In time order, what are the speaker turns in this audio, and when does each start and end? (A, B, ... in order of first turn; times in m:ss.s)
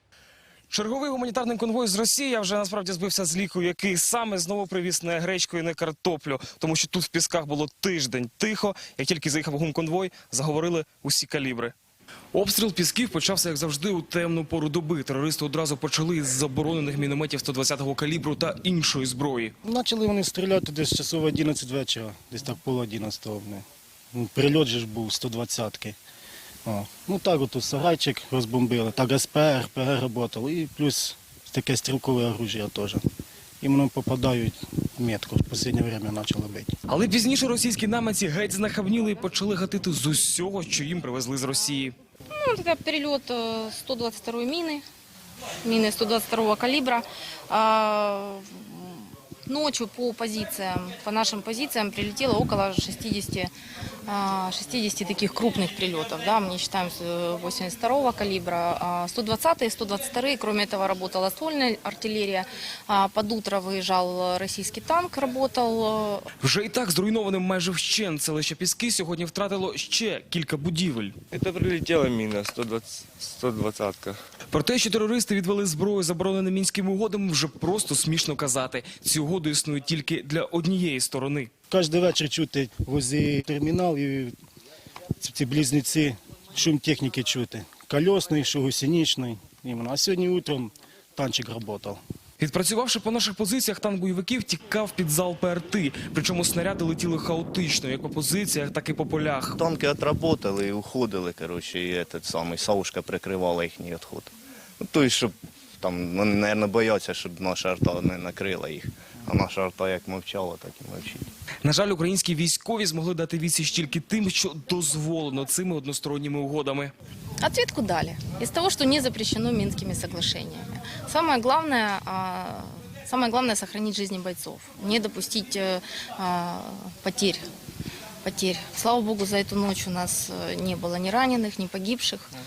0:00.7-0:11.7 A
0:12.3-0:19.5 A
0:19.6-0:26.0 B
0:26.6-0:33.0 B
0:33.6-0:36.7 B
0:36.9-0:41.9 A
0:42.3-0:44.8 C
0:45.6-0:53.5 C
0:54.1-1:06.2 C
1:06.4-1:11.2 A
1:11.3-1:14.2 D
1:14.5-1:21.5 A
1:21.7-1:24.3 B
1:25.2-1:32.0 B
1:32.4-1:39.6 A
1:39.6-1:51.3 E
1:51.6-1:56.9 A
1:57.4-2:07.4 C
2:08.2-2:12.3 C